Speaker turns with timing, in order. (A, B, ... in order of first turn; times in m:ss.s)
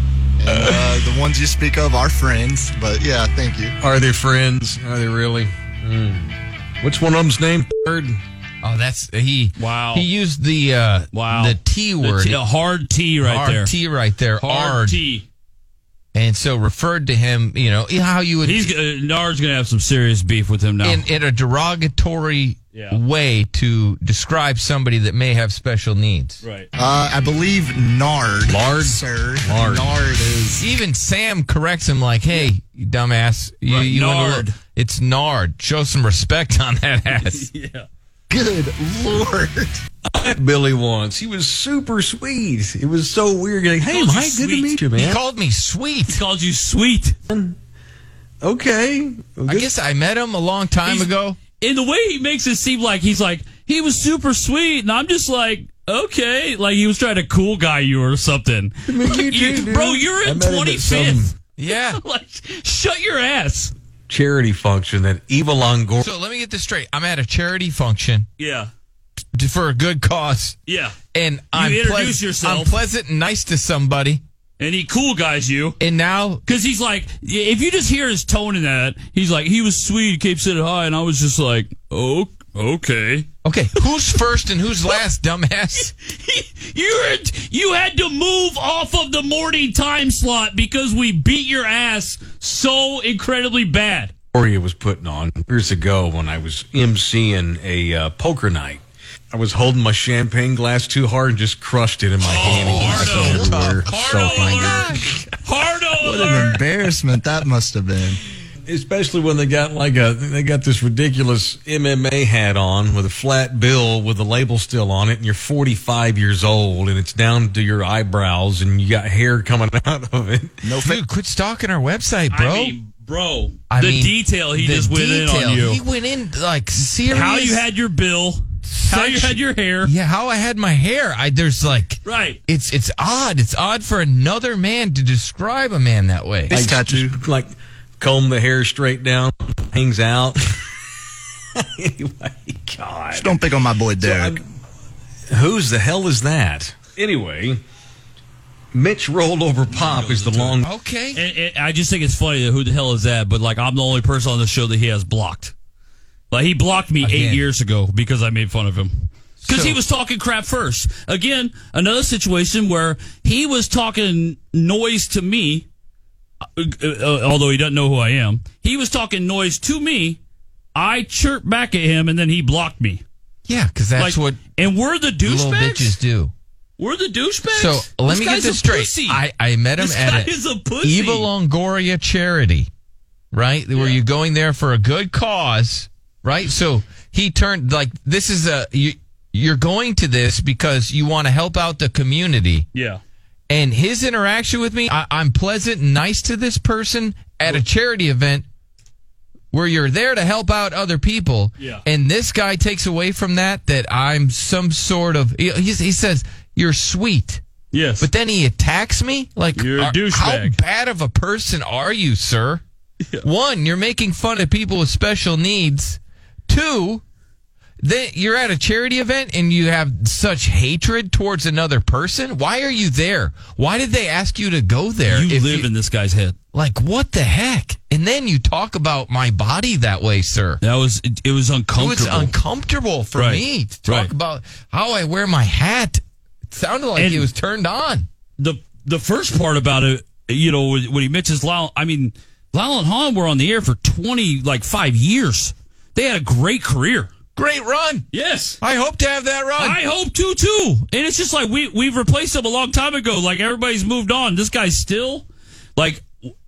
0:00.4-0:03.8 A
0:03.8-0:08.2 B
0:08.6-0:12.4 C
0:09.6-0:10.1 D
0:11.1-0:13.7 D
0:13.2-0:15.0 C
0:14.4-0:15.2 D
0:16.1-0:18.7 C
0:18.4-0:21.0 D
0:20.8-0:26.4 C
0:22.7-0:23.0 D
0:26.4-0:26.7 D
0:26.8-0:30.7 A
0:28.5-0:29.9 B
0:30.6-0:37.5 C
0:33.7-0:34.6 D
0:37.2-0:37.9 D
0:38.3-0:39.8 A
0:40.1-0:45.2 B
0:43.8-0:44.7 D
0:45.0-0:46.2 C
0:46.1-0:47.2 D
0:47.3-0:47.6 B
0:48.4-0:49.7 B
0:49.5-0:51.4 C
0:51.6-1:03.7 D
0:58.9-1:01.3 B
1:01.6-1:02.0 C
1:04.1-1:06.0 B
1:06.0-1:08.2 C
1:08.4-1:08.7 D
1:09.3-1:10.6 C
1:10.7-1:11.0 D
1:11.1-1:14.2 C
1:11.5-1:12.7 D
1:14.6-1:15.8 D
1:15.8-1:16.4 C
1:16.4-1:23.3 D
1:23.4-1:25.9 C
1:26.2-1:34.1 D
1:34.3-1:45.0 B
1:42.2-1:45.0 C
1:42.3-1:44.9 D
1:45.4-1:46.6 D
1:46.0-1:48.2 A
1:48.7-2:00.6 B
2:00.6-2:01.0 A
2:00.8-2:02.7 C
2:02.3-2:05.8 D
2:03.7-2:07.6 C
2:07.1-2:09.9 D
2:08.6-2:16.5 C
2:12.0-2:12.4 D
2:16.5-2:17.2 A
2:16.5-2:20.6 B
2:21.5-2:23.4 B
2:23.1-2:24.4 A
2:24.0-2:24.4 B
2:25.3-2:27.6 B
2:28.7-2:30.7 B
2:29.7-2:30.6 D
2:30.6-2:31.2 C
2:31.1-2:35.5 D
2:36.3-2:45.6 D
2:37.0-2:37.4 C
2:39.4-2:39.8 C
2:46.6-2:50.2 D
2:50.7-2:53.0 D
2:53.5-2:54.4 C
2:54.0-2:56.0 D
2:55.2-2:56.3 C
2:56.8-2:59.2 D
2:57.5-3:00.3 C
2:59.8-3:01.3 D
3:00.8-3:02.7 C
3:03.3-3:12.6 C
3:03.7-3:04.0 D
3:12.7-3:13.0 D
3:13.5-3:18.4 C
3:19.5-3:27.4 C
3:27.7-3:28.1 D
3:28.0-3:32.6 C
3:29.5-3:30.6 D
3:33.2-3:37.0 C
3:37.8-3:45.7 C
3:45.1-3:46.3 D
3:46.5-3:50.6 C
3:50.6-3:52.3 D
3:51.8-3:58.1 C
3:53.2-3:54.1 D
3:57.0-3:57.3 D
3:58.4-4:07.1 D
4:07.4-4:08.0 C
4:08.1-4:08.6 D
4:08.6-4:09.8 C
4:09.6-4:15.2 D
4:15.8-4:16.0 D